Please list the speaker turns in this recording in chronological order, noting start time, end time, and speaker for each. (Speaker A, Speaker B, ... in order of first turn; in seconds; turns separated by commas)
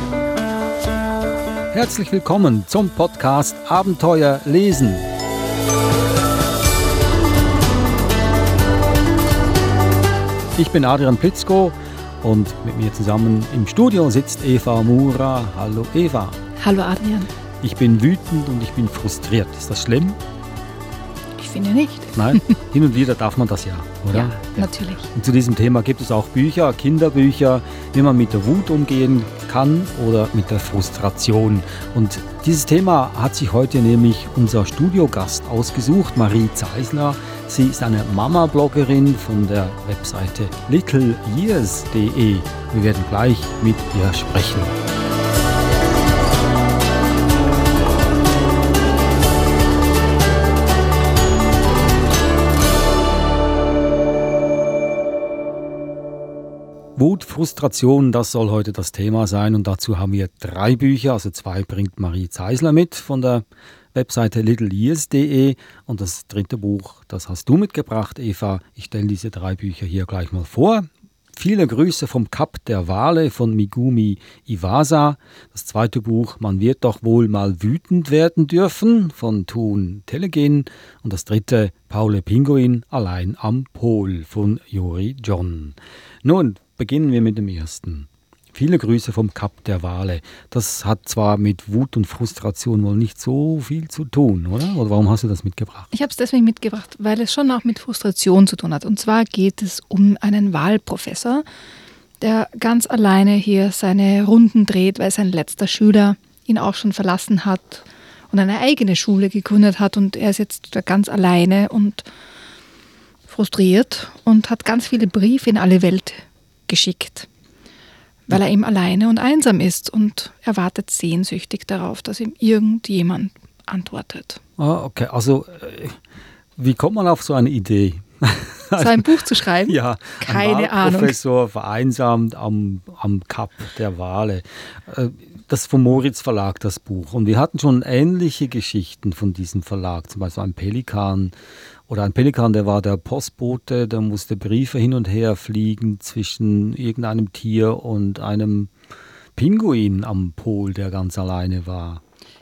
Speaker A: 1.7-5.1, Speaker A: 10.6-16.4, Speaker B: 16.6-17.3, Speaker A: 17.6-20.2, Speaker B: 21.4-22.5, Speaker A: 22.1-44.8, Speaker B: 24.1-25.1, Speaker A: 57.0-95.9, Speaker B: 95.9-101.4, Speaker B: 102.2-112.0, Speaker B: 113.3-117.3, Speaker B: 118.3-124.4, Speaker A: 124.6-126.0, Speaker A: 126.6-141.3, Speaker B: 128.8-131.1, Speaker A: 141.9-148.7, Speaker A: 149.3-152.0